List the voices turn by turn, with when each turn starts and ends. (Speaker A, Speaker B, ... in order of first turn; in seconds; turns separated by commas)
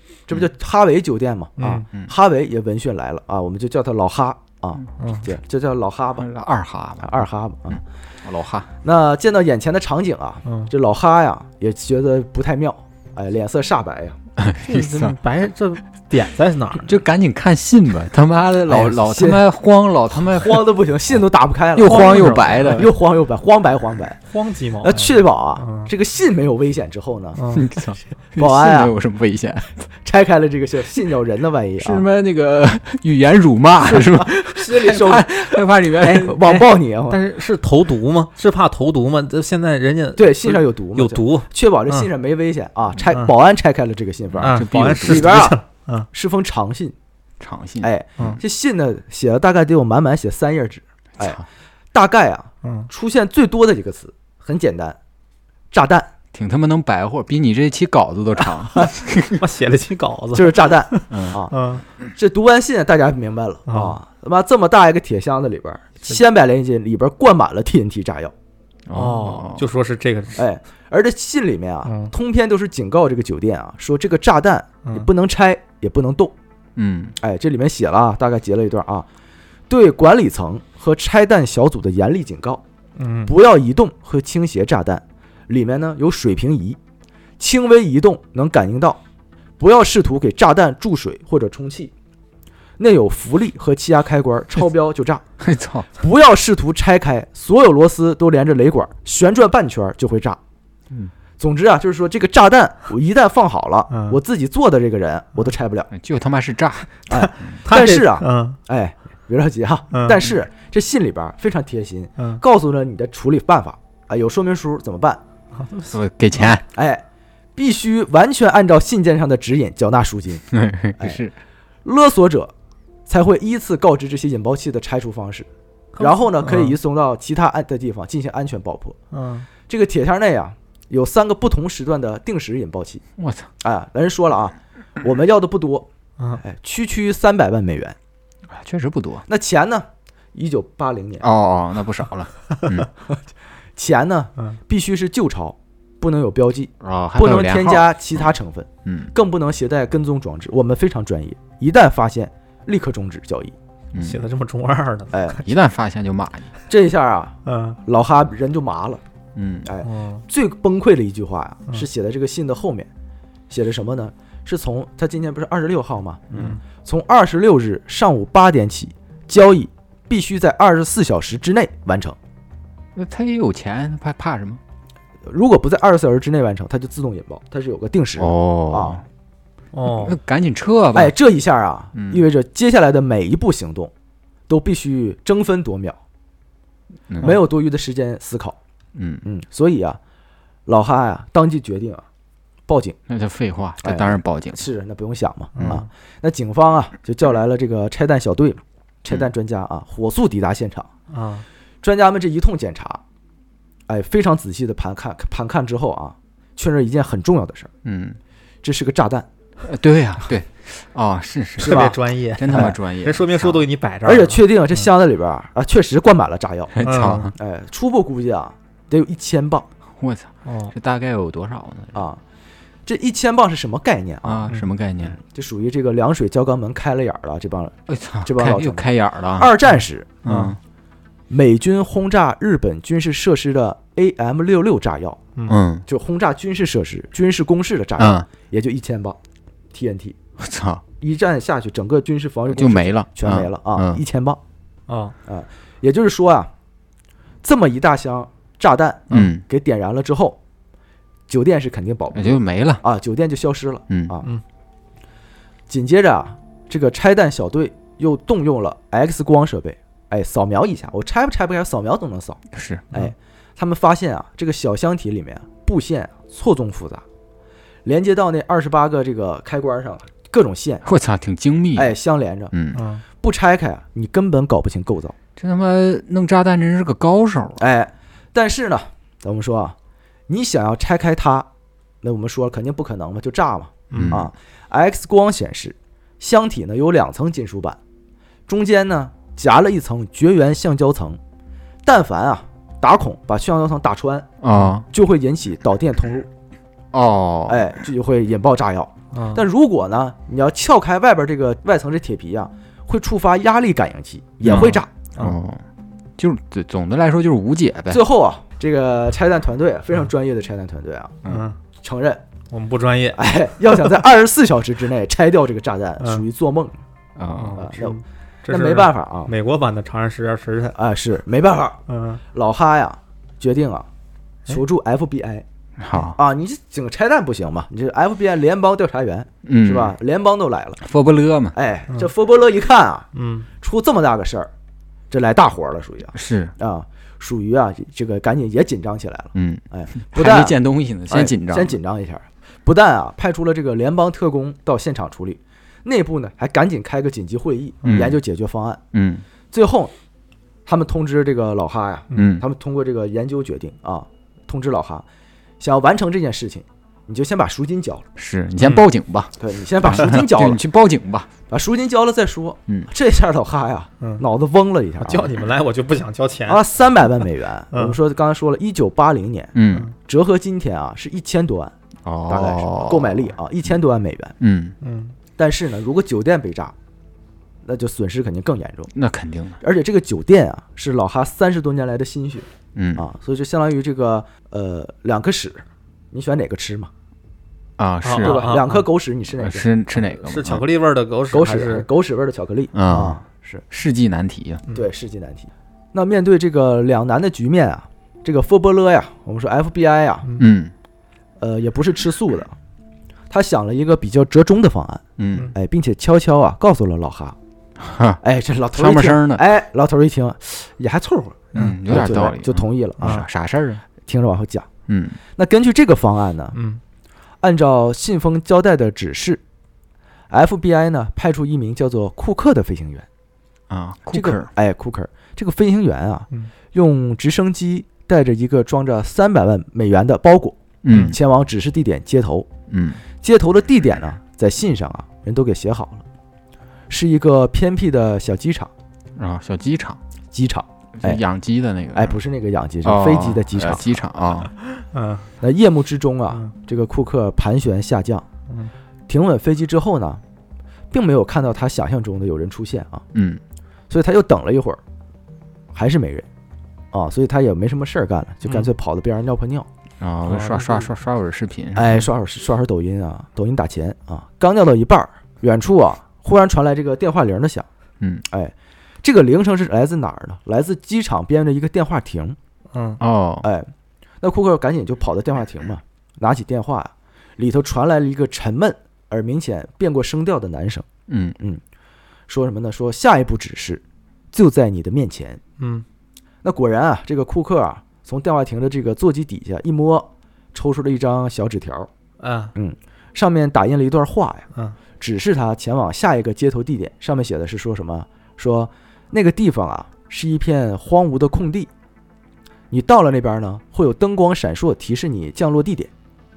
Speaker A: 0.3-6.3, Speaker B: 1.6-1.8, Speaker B: 5.0-5.2, Speaker C: 6.2-7.2, Speaker A: 7.0-7.8, Speaker C: 7.7-8.7, Speaker A: 8.8-14.2, Speaker B: 10.4-10.7, Speaker C: 14.4-15.2, Speaker B: 14.6-16.9, Speaker C: 16.8-20.7, Speaker A: 18.7-19.4, Speaker A: 20.1-24.2, Speaker C: 21.7-22.9, Speaker B: 21.8-22.9, Speaker B: 24.3-25.9, Speaker A: 24.8-27.4, Speaker B: 27.4-27.7, Speaker C: 27.5-29.9, Speaker A: 28.4-28.9, Speaker A: 30.0-32.0, Speaker C: 31.8-36.7, Speaker A: 33.8-37.2, Speaker B: 37.1-42.1, Speaker A: 40.2-45.6, Speaker C: 44.3-45.5, Speaker B: 44.4-46.1, Speaker A: 46.1-46.9, Speaker C: 47.4-48.4, Speaker A: 47.8-51.4, Speaker C: 51.2-51.4, Speaker A: 51.9-55.0, Speaker B: 52.6-52.9, Speaker A: 55.7-56.1, Speaker C: 56.3-59.4, Speaker B: 58.8-61.8, Speaker A: 60.3-61.5, Speaker C: 61.1-61.4, Speaker A: 62.1-68.3, Speaker B: 63.7-64.0, Speaker C: 68.9-69.6, Speaker B: 68.9-70.4, Speaker A: 70.3-76.3, Speaker B: 71.8-72.1, Speaker C: 76.8-77.2, Speaker A: 77.2-79.0, Speaker A: 79.7-82.6, Speaker B: 83.0-83.3, Speaker A: 83.3-86.8, Speaker A: 87.4-89.0, Speaker A: 89.6-91.9, Speaker A: 92.8-95.2, Speaker C: 95.4-95.9, Speaker A: 96.0-100.4, Speaker A: 101.4-105.9, Speaker B: 103.9-104.2, Speaker C: 105.9-107.5, Speaker A: 107.1-115.2, Speaker B: 107.1-108.6, Speaker B: 109.9-110.2, Speaker B: 115.6-115.9, Speaker C: 115.9-116.7, Speaker A: 116.7-117.0, Speaker A: 117.5-121.2, Speaker C: 120.5-121.3, Speaker A: 121.8-122.5, Speaker A: 123.1-125.5, Speaker B: 126.0-126.8, Speaker A: 126.0-129.0, Speaker B: 129.1-129.5, Speaker A: 129.7-133.0, Speaker C: 133.2-133.5, Speaker A: 133.6-135.9, Speaker A: 136.4-137.9, Speaker C: 138.5-139.2, Speaker A: 139.3-141.3, Speaker C: 141.2-142.9, Speaker A: 143.8-153.6, Speaker C: 146.8-148.3, Speaker C: 148.8-149.1, Speaker C: 153.9-154.2, Speaker B: 153.9-155.4, Speaker A: 155.1-155.4, Speaker C: 155.4-156.5, Speaker A: 156.7-159.0, Speaker B: 157.4-157.8, Speaker C: 159.3-159.7, Speaker A: 159.6-162.9, Speaker B: 159.8-160.2, Speaker A: 163.5-172.2, Speaker B: 166.3-166.6, Speaker C: 172.9-174.6, Speaker A: 175.2-179.0, Speaker C: 178.2-179.0, Speaker B: 179.7-180.2, Speaker C: 179.8-181.1, Speaker A: 180.9-183.9, Speaker C: 181.9-182.2, Speaker A: 184.5-186.0, Speaker A: 187.2-188.6, Speaker C: 188.9-189.2, Speaker A: 189.2-190.0, Speaker A: 190.7-192.1, Speaker A: 192.7-193.0, Speaker C: 193.1-194.7, Speaker A: 193.8-200.9, Speaker B: 195.5-195.8, Speaker B: 201.1-201.4, Speaker A: 201.8-203.0, Speaker A: 203.9-207.7, Speaker C: 207.8-208.2, Speaker A: 208.6-209.3, Speaker C: 209.6-213.7, Speaker A: 211.6-212.0, Speaker B: 211.6-214.4, Speaker A: 212.5-212.8, Speaker A: 214.0-219.7, Speaker C: 216.7-217.3, Speaker B: 216.8-217.3, Speaker C: 219.9-222.0, Speaker B: 220.4-220.7, Speaker A: 221.9-222.2, Speaker A: 222.8-224.5, Speaker C: 224.2-225.2, Speaker A: 225.0-230.1, Speaker C: 227.9-229.5, Speaker C: 230.2-230.6, Speaker B: 230.2-230.6, Speaker A: 231.3-235.2, Speaker C: 235.5-235.8, Speaker A: 235.9-239.2, Speaker C: 238.0-238.3, Speaker A: 239.7-240.2, Speaker C: 240.4-240.8, Speaker A: 241.0-244.4, Speaker C: 242.5-244.0, Speaker B: 244.9-245.1, Speaker A: 245.3-246.5, Speaker A: 247.4-250.4, Speaker C: 249.1-249.4, Speaker A: 251.3-254.3, Speaker C: 252.1-252.8, Speaker C: 253.9-254.1, Speaker A: 255.7-262.4, Speaker C: 262.5-262.9, Speaker A: 262.9-267.0, Speaker A: 267.8-270.9, Speaker C: 270.8-271.9, Speaker A: 271.7-272.5, Speaker C: 272.5-272.8, Speaker B: 272.7-273.0, Speaker A: 273.2-275.1, Speaker C: 275.4-277.6, Speaker A: 277.6-279.8, Speaker A: 280.3-281.5, Speaker A: 282.0-287.8, Speaker B: 283.9-284.2, Speaker C: 283.9-284.3, Speaker A: 288.5-291.2, Speaker A: 291.8-294.3, Speaker C: 294.4-294.9, Speaker A: 294.9-296.3, Speaker C: 296.9-297.7, Speaker A: 297.5-304.9, Speaker B: 299.1-299.4, Speaker C: 304.4-305.6, Speaker B: 304.5-305.4, Speaker C: 306.2-308.0, Speaker A: 307.9-311.1, Speaker B: 311.2-311.6, Speaker A: 311.8-312.2, Speaker B: 312.5-313.8, Speaker A: 313.1-316.8, Speaker B: 316.0-316.2, Speaker C: 317.1-317.6, Speaker B: 317.3-320.8, Speaker A: 317.6-319.3, Speaker A: 320.7-321.8, Speaker B: 321.9-322.2, Speaker A: 322.3-323.9, Speaker A: 324.5-330.8, Speaker C: 325.8-326.2, Speaker C: 329.4-329.9, Speaker C: 330.8-331.6, Speaker A: 331.5-333.1, Speaker B: 333.1-333.5, Speaker A: 333.6-334.5, Speaker A: 335.1-340.6, Speaker C: 336.1-336.5, Speaker C: 339.3-341.8, Speaker A: 341.1-348.8, Speaker C: 347.8-348.2, Speaker C: 348.9-349.2, Speaker A: 349.5-349.9, Speaker A: 350.6-355.0, Speaker C: 352.1-352.4, Speaker A: 355.6-358.1, Speaker C: 358.1-361.3, Speaker B: 358.6-358.9, Speaker A: 359.4-360.6, Speaker A: 361.5-365.3, Speaker B: 365.0-366.6, Speaker A: 366.5-369.5, Speaker B: 367.7-368.0, Speaker C: 369.5-369.9, Speaker A: 370.0-371.7, Speaker C: 372.0-373.3, Speaker A: 372.3-374.3, Speaker C: 374.4-374.8, Speaker B: 374.8-375.1, Speaker A: 375.4-376.7, Speaker A: 377.6-378.9, Speaker C: 378.9-379.6, Speaker A: 379.6-386.9, Speaker C: 382.7-383.0, Speaker C: 387.8-388.6, Speaker B: 388.0-388.8, Speaker A: 388.2-389.7, Speaker C: 389.3-390.6, Speaker B: 390.2-391.9, Speaker A: 391.3-393.6, Speaker C: 392.7-394.6, Speaker A: 394.7-400.3, Speaker C: 400.4-400.7, Speaker A: 401.4-402.6, Speaker A: 403.3-405.0, Speaker C: 405.2-405.5, Speaker A: 405.5-407.4, Speaker C: 407.8-408.2, Speaker A: 408.2-413.2, Speaker C: 408.7-409.4, Speaker C: 411.5-413.8, Speaker B: 413.0-413.2, Speaker A: 414.1-414.7, Speaker C: 414.9-415.2, Speaker A: 415.4-416.6, Speaker B: 416.5-416.8, Speaker A: 417.4-419.4, Speaker A: 420.3-423.1, Speaker C: 423.7-424.5, Speaker A: 424.1-432.5, Speaker C: 430.8-431.2, Speaker C: 432.7-433.0, Speaker A: 433.2-436.0, Speaker A: 436.9-438.7, Speaker C: 439.1-440.0, Speaker A: 440.3-441.2, Speaker C: 441.0-442.2, Speaker A: 441.9-444.0, Speaker C: 442.8-444.5, Speaker B: 444.8-445.3, Speaker A: 445.4-448.2, Speaker A: 449.1-450.2, Speaker A: 450.9-453.0, Speaker C: 453.1-453.4, Speaker A: 453.9-454.8, Speaker A: 455.7-456.2, Speaker A: 456.9-459.7, Speaker C: 460.0-462.1, Speaker B: 460.2-460.9, Speaker A: 461.7-467.7, Speaker C: 468.0-468.2, Speaker A: 468.3-472.4, Speaker B: 472.7-473.0, Speaker C: 473.0-473.5, Speaker A: 473.4-473.7, Speaker A: 474.2-480.9, Speaker C: 481.1-481.4, Speaker A: 482.3-483.8, Speaker A: 484.3-485.4, Speaker B: 485.6-485.8, Speaker A: 486.4-491.9, Speaker B: 492.2-492.5, Speaker A: 492.5-494.4, Speaker A: 495.0-501.7, Speaker A: 502.7-505.9